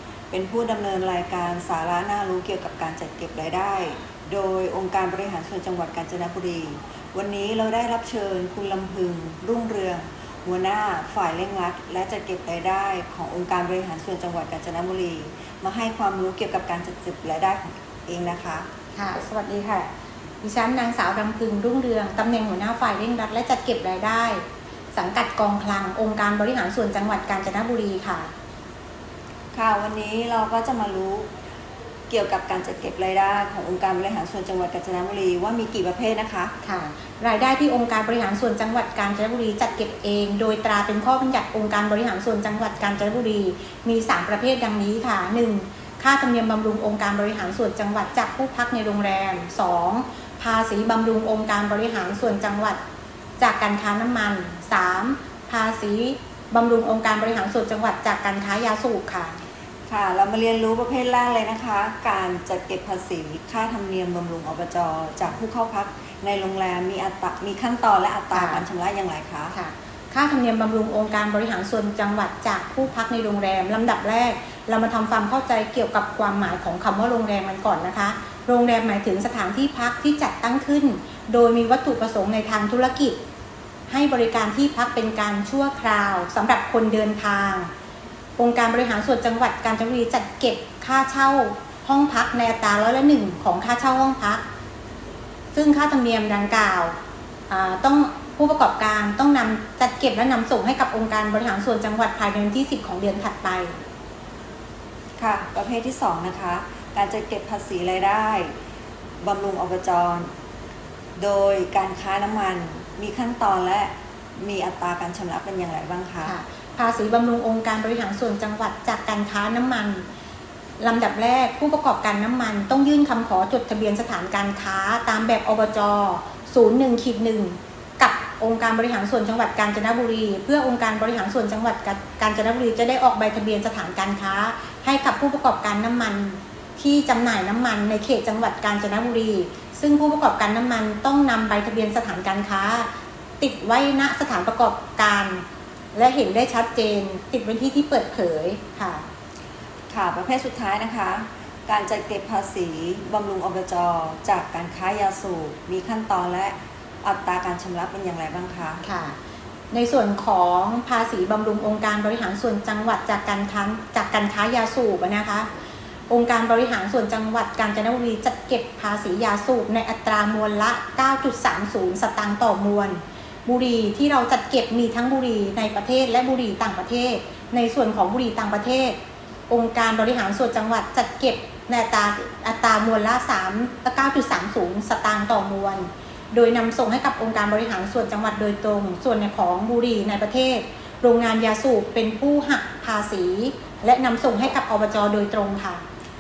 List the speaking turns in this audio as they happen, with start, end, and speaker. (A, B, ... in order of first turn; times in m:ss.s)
0:00.3-0:18.7 A
0:19.0-0:19.9 B
0:20.4-0:28.3 B
0:29.5-0:31.3 A
0:32.1-0:36.5 A
0:36.6-0:52.8 B
0:53.4-0:59.4 B
0:59.9-1:09.5 A
1:08.3-1:08.6 B
1:09.5-1:23.2 B
1:23.9-1:27.7 B
1:28.4-1:34.4 B
1:35.5-1:37.0 B
1:37.5-1:43.7 B
1:45.2-1:48.5 A
1:49.2-1:50.3 A
1:51.2-1:56.3 A
1:56.2-2:00.1 B
2:00.8-2:29.1 B
2:29.9-2:38.8 A
2:38.8-2:39.2 B
2:39.7-2:45.5 B
2:46.1-3:15.8 B